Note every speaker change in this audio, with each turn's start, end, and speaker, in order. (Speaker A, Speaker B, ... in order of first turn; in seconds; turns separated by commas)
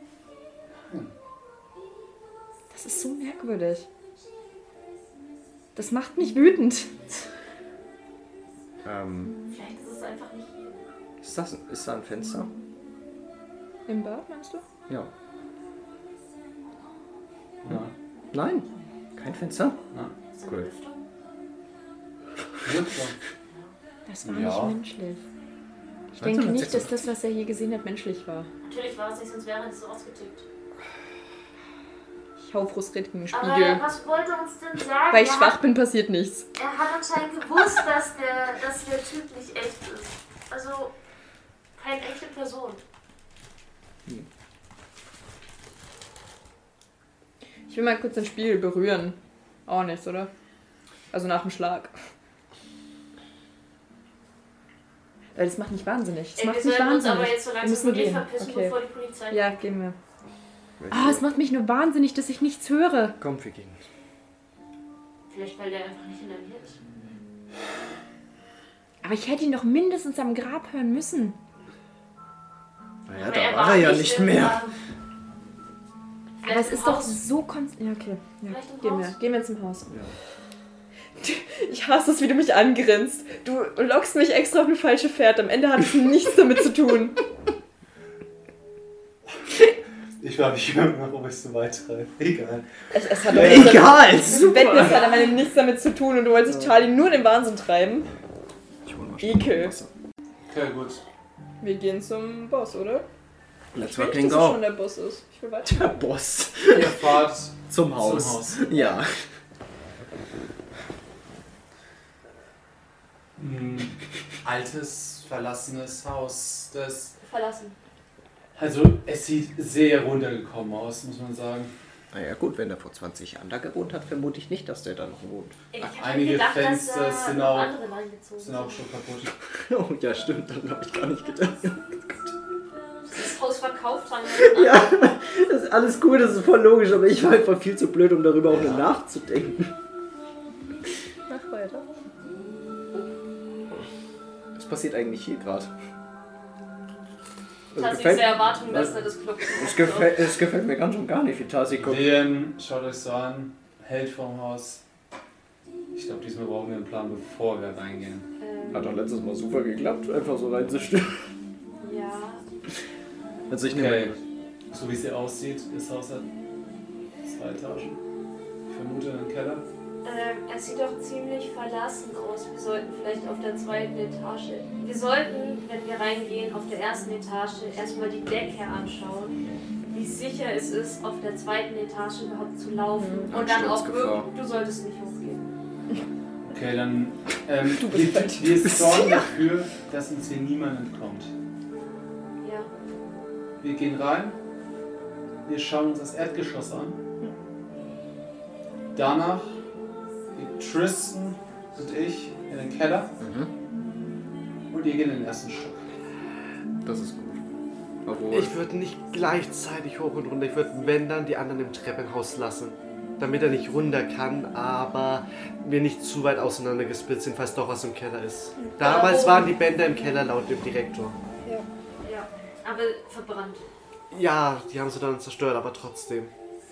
Speaker A: 0.8-1.1, Speaker B: 2.7-3.9, Speaker B: 5.8-6.9, Speaker C: 8.8-9.4, Speaker D: 9.5-10.9, Speaker C: 11.2-12.5, Speaker B: 13.9-14.6, Speaker A: 17.6-17.9, Speaker C: 18.3-19.8, Speaker D: 20.3-21.0, Speaker A: 22.6-23.1, Speaker B: 24.1-25.2, Speaker A: 24.2-24.8, Speaker C: 26.1-26.9, Speaker B: 26.2-28.5, Speaker D: 28.6-30.4, Speaker B: 32.4-33.8, Speaker D: 33.3-35.6, Speaker B: 35.1-36.5, Speaker D: 36.5-40.9, Speaker D: 41.8-42.8, Speaker B: 47.7-50.3, Speaker B: 51.1-51.9, Speaker B: 55.3-58.8, Speaker D: 56.3-59.6, Speaker B: 59.3-60.0, Speaker C: 60.8-61.4, Speaker B: 60.9-63.1, Speaker C: 63.2-63.8, Speaker D: 65.3-66.8, Speaker B: 69.0-71.4, Speaker C: 73.1-74.6, Speaker D: 73.2-74.7, Speaker D: 76.4-77.2, Speaker B: 76.4-79.9, Speaker D: 78.5-79.1, Speaker B: 81.2-87.2, Speaker A: 90.2-92.7, Speaker B: 92.9-98.1, Speaker C: 93.3-95.1, Speaker D: 94.7-95.4, Speaker C: 96.5-96.8, Speaker C: 98.8-99.9, Speaker B: 99.2-99.7, Speaker A: 100.5-101.0, Speaker B: 101.6-103.0, Speaker C: 103.7-104.7, Speaker B: 103.7-105.8, Speaker C: 105.6-107.1, Speaker A: 106.7-108.7, Speaker C: 107.7-109.1, Speaker A: 113.4-117.1, Speaker D: 117.2-117.8, Speaker A: 118.5-121.7, Speaker C: 122.1-125.6, Speaker D: 125.7-128.8, Speaker A: 125.8-127.7, Speaker A: 128.4-129.3, Speaker C: 129.7-132.3, Speaker D: 133.1-134.9, Speaker C: 134.4-139.7, Speaker A: 138.5-138.9, Speaker B: 141.3-141.8, Speaker C: 144.6-145.7, Speaker C: 147.7-149.0, Speaker D: 147.7-150.3, Speaker C: 149.6-152.1, Speaker A: 151.8-154.8, Speaker A: 155.9-158.3, Speaker D: 158.4-159.0, Speaker C: 158.7-161.2, Speaker D: 161.8-162.4, Speaker C: 163.5-164.2, Speaker A: 163.7-164.2, Speaker A: 164.7-166.3, Speaker A: 167.2-168.0, Speaker A: 168.7-169.6, Speaker D: 170.0-179.3, Speaker D: 179.9-185.4, Speaker B: 182.9-183.3, Speaker C: 183.3-184.3, Speaker A: 186.5-191.3, Speaker B: 187.7-188.9, Speaker C: 188.8-189.2, Speaker D: 192.4-192.7, Speaker A: 193.6-194.4, Speaker A: 195.4-197.0, Speaker A: 198.9-199.6, Speaker A: 200.3-203.2, Speaker C: 203.2-203.5, Speaker A: 204.7-205.8, Speaker C: 206.8-207.4, Speaker C: 208.0-208.6, Speaker E: 208.3-221.2, Speaker D: 218.8-219.5, Speaker D: 222.0-223.6, Speaker E: 224.1-226.3